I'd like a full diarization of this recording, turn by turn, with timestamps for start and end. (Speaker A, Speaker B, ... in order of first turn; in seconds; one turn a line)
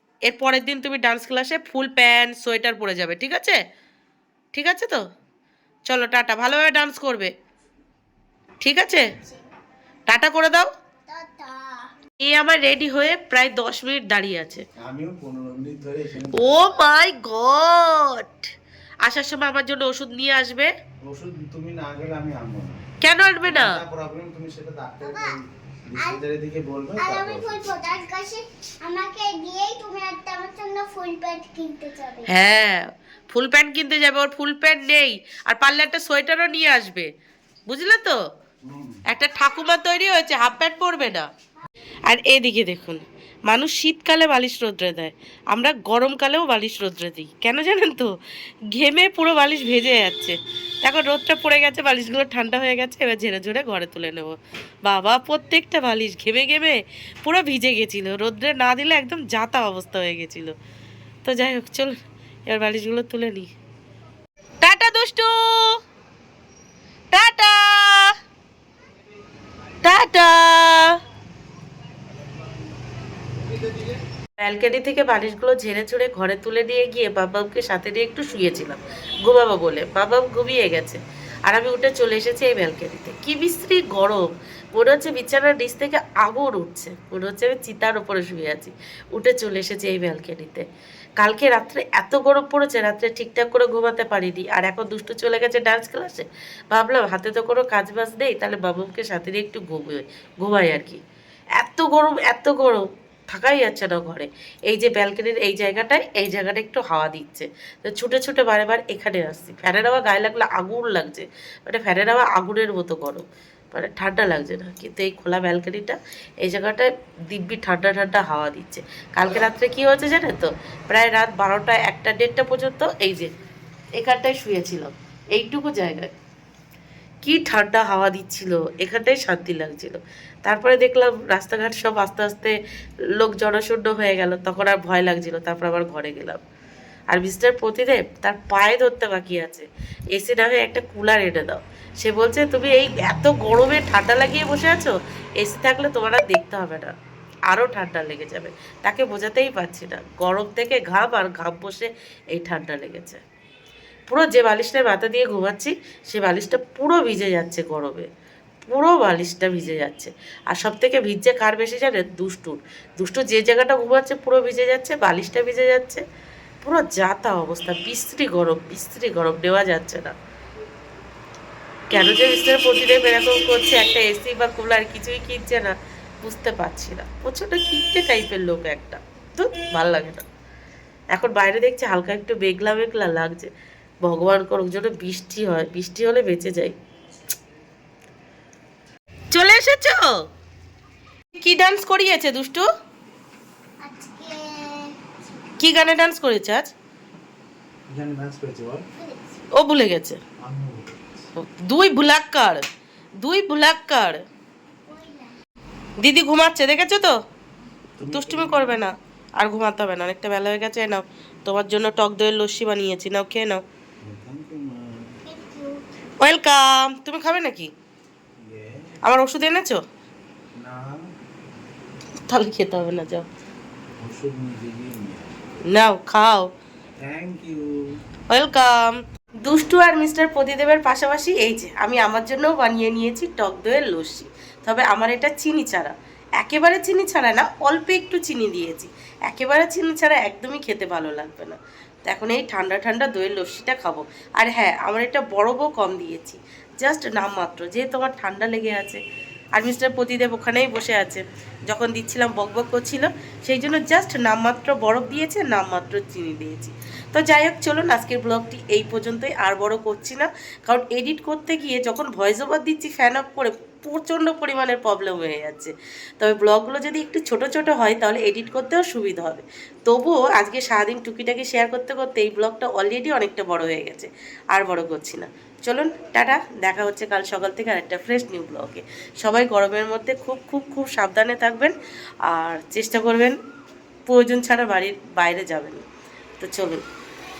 Speaker A: 0.3-3.6
Speaker A: 4.5-5.0
Speaker A: 5.9-7.3
Speaker A: 8.6-9.1
Speaker B: 9.2-9.4
Speaker A: 10.1-10.7
Speaker B: 11.1-11.9
Speaker A: 12.2-14.6
Speaker C: 14.8-16.6
Speaker A: 16.3-18.5
Speaker A: 19.0-20.7
Speaker C: 21.0-22.9
Speaker A: 23.0-23.8
Speaker C: 23.4-27.6
Speaker B: 25.0-25.4
Speaker B: 27.0-32.3
Speaker A: 32.3-37.1
Speaker A: 37.7-38.2
Speaker C: 38.7-39.0
Speaker A: 39.1-41.3
Speaker A: 42.1-48.1
Speaker A: 48.7-60.5
Speaker A: 61.2-63.5
Speaker A: 64.6-65.8
Speaker A: 67.1-68.1
Speaker A: 69.8-71.0
Speaker A: 74.4-90.7
Speaker A: 91.2-101.0
Speaker A: 101.6-123.3
Speaker A: 124.0-126.1
Speaker A: 127.2-132.6
Speaker A: 133.2-136.4
Speaker A: 137.1-146.9
Speaker A: 147.5-153.2
Speaker A: 154.1-158.1
Speaker A: 158.7-166.0
Speaker A: 166.6-170.1
Speaker A: 171.9-180.2
Speaker A: 181.1-183.5
Speaker A: 184.1-186.8
Speaker A: 189.3-190.2
Speaker A: 191.4-192.7
Speaker B: 193.8-195.4
Speaker A: 195.6-196.7
Speaker C: 197.9-198.9
Speaker B: 199.0-199.4
Speaker A: 199.5-200.2
Speaker C: 200.4-201.2
Speaker A: 201.4-202.7
Speaker A: 203.2-204.2
Speaker B: 204.9-205.3
Speaker A: 206.0-207.2
Speaker C: 208.0-208.8
Speaker A: 208.1-213.6
Speaker C: 214.0-215.1
Speaker B: 215.3-215.8
Speaker A: 216.2-217.7
Speaker C: 218.4-219.0
Speaker A: 219.0-219.8
Speaker C: 220.6-221.0
Speaker A: 222.3-223.3
Speaker C: 224.0-225.4
Speaker A: 225.7-226.5
Speaker C: 227.0-227.7
Speaker A: 228.3-249.0
Speaker A: 249.6-281.8
Speaker A: 282.3-283.4
Speaker A: 284.1-285.8
Speaker A: 286.4-286.8